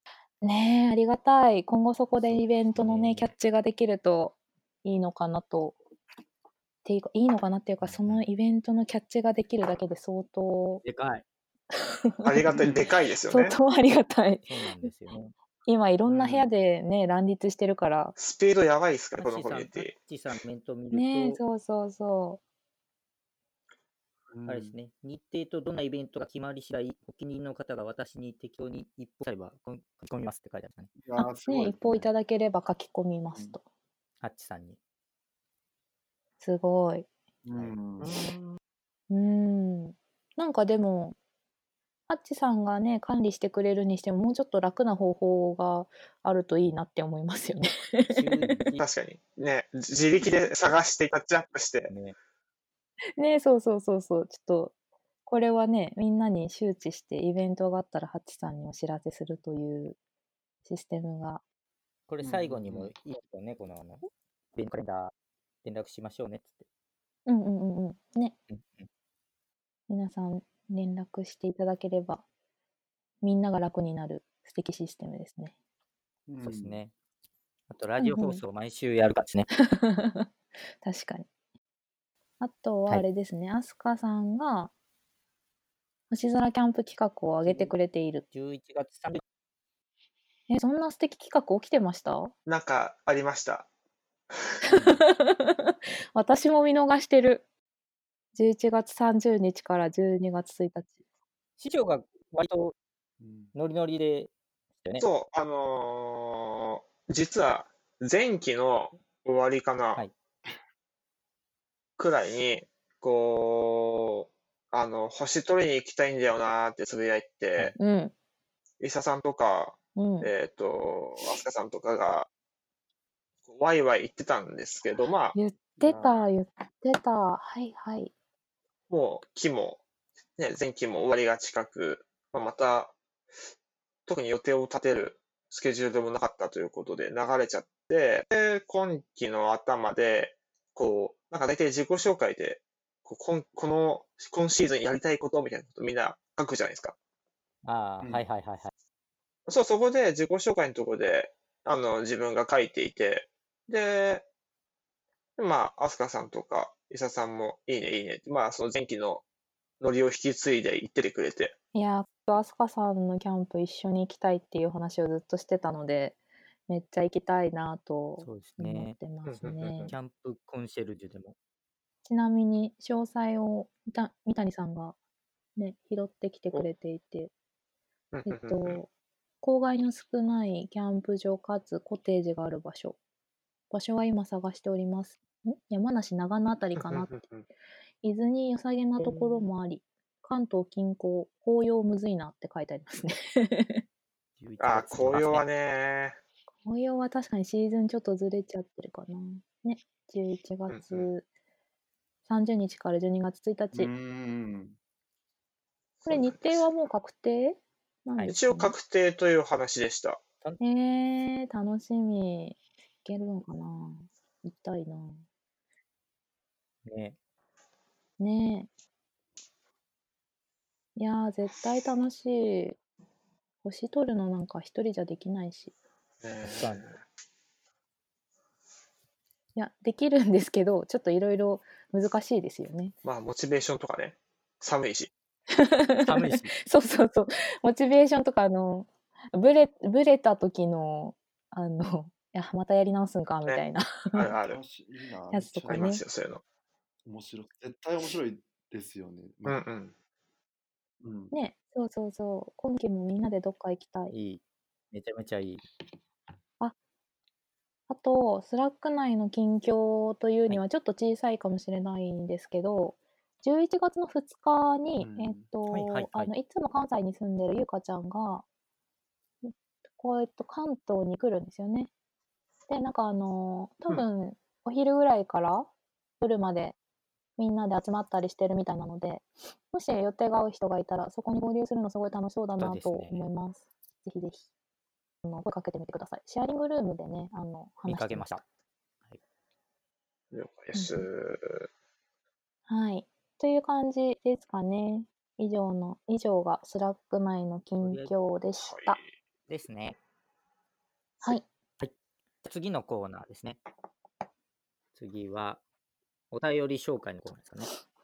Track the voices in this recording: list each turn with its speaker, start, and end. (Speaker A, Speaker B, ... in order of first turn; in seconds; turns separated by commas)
Speaker A: 0.4-5.8, Speaker B: 2.3-3.3, Speaker A: 6.8-10.8, Speaker B: 7.8-8.2, Speaker B: 10.8-11.2, Speaker A: 12.0-12.4, Speaker C: 12.2-13.6, Speaker D: 12.4-12.9, Speaker B: 12.6-13.0, Speaker A: 13.3-14.9, Speaker B: 14.5-15.3, Speaker A: 15.6-18.1, Speaker D: 16.1-16.4, Speaker C: 18.2-19.9, Speaker B: 19.2-21.4, Speaker A: 20.9-22.4, Speaker D: 24.3-24.8, Speaker B: 24.4-30.9, Speaker D: 31.0-32.1, Speaker A: 31.2-33.6, Speaker B: 34.2-34.8, Speaker A: 36.4-37.1, Speaker D: 37.4-38.1, Speaker C: 38.0-38.6, Speaker A: 39.1-41.2, Speaker A: 42.1-48.7, Speaker B: 48.1-48.8, Speaker C: 48.8-51.9, Speaker B: 51.9-52.1, Speaker A: 53.2-54.7, Speaker A: 55.2-60.0, Speaker A: 60.6-61.4, Speaker B: 62.1-65.1, Speaker D: 62.2-62.9, Speaker B: 65.6-66.6, Speaker A: 67.2-68.3, Speaker B: 68.5-68.9, Speaker A: 69.9-72.2, Speaker A: 73.2-75.5, Speaker D: 76.3-76.8, Speaker B: 76.4-76.9, Speaker B: 77.7-79.5, Speaker A: 78.0-78.4, Speaker A: 79.6-80.3, Speaker A: 80.8-81.3, Speaker A: 82.4-84.7, Speaker A: 86.1-88.2, Speaker B: 87.4-87.8, Speaker B: 88.3-89.2, Speaker A: 90.5-92.3, Speaker C: 92.5-93.7, Speaker A: 94.7-97.5, Speaker B: 94.7-95.0, Speaker A: 98.3-101.0, Speaker B: 101.6-102.8, Speaker D: 103.2-103.5, Speaker B: 103.5-104.3, Speaker C: 105.0-110.0, Speaker C: 112.0-117.7, Speaker A: 117.8-118.1, Speaker C: 118.8-122.3, Speaker A: 120.0-120.3, Speaker C: 123.5-126.3, Speaker A: 125.3-128.1, Speaker C: 128.9-129.8, Speaker C: 130.4-132.9, Speaker C: 134.1-146.9, Speaker B: 147.6-148.7, Speaker C: 149.5-154.3, Speaker C: 155.4-159.2, Speaker C: 159.8-161.5, Speaker A: 161.7-169.9, Speaker B: 168.2-169.0, Speaker C: 169.2-169.9, Speaker B: 169.9-171.3, Speaker A: 172.0-174.9, Speaker A: 175.6-177.3, Speaker C: 178.1-178.8, Speaker A: 178.2-178.9, Speaker A: 179.4-183.0, Speaker A: 183.7-187.1, Speaker C: 186.8-187.4, Speaker A: 188.0-193.8, Speaker C: 189.0-189.4, Speaker B: 194.4-195.4, Speaker C: 194.6-196.2, Speaker A: 196.6-201.2, Speaker C: 200.7-201.1, Speaker A: 202.3-203.9, Speaker D: 203.7-204.8, Speaker C: 206.0-206.7, Speaker A: 206.0-208.8, Speaker C: 208.3-210.2, Speaker A: 210.6-215.2, Speaker B: 216.9-217.2, Speaker A: 218.2-218.7, Speaker A: 220.9-222.8, Speaker A: 223.6-225.7, Speaker C: 226.2-227.0, Speaker B: 226.5-226.9, Speaker A: 229.6-232.9, Speaker C: 233.0-235.1, Speaker A: 235.5-244.3, Speaker B: 236.1-236.5, Speaker C: 244.1-244.6, Speaker D: 244.5-245.9, Speaker A: 245.3-246.0, Speaker C: 245.7-246.4, Speaker D: 247.0-249.6, Speaker C: 249.5-249.9, Speaker D: 251.0-251.3, Speaker A: 251.3-254.1, Speaker B: 254.1-254.4, Speaker B: 254.9-255.6, Speaker A: 257.9-268.4, Speaker D: 265.0-265.5, Speaker B: 265.7-266.3, Speaker A: 269.4-271.9, Speaker A: 272.7-275.7, Speaker A: 276.2-276.8, Speaker A: 277.4-284.5, Speaker B: 282.6-283.2, Speaker A: 285.2-288.2, Speaker B: 287.8-288.4, Speaker C: 290.3-291.7, Speaker A: 290.7-291.1, Speaker A: 292.7-299.0, Speaker B: 297.8-298.1, Speaker C: 298.6-299.1, Speaker B: 299.5-300.0, Speaker B: 302.4-303.6, Speaker B: 304.9-305.6, Speaker B: 306.3-307.7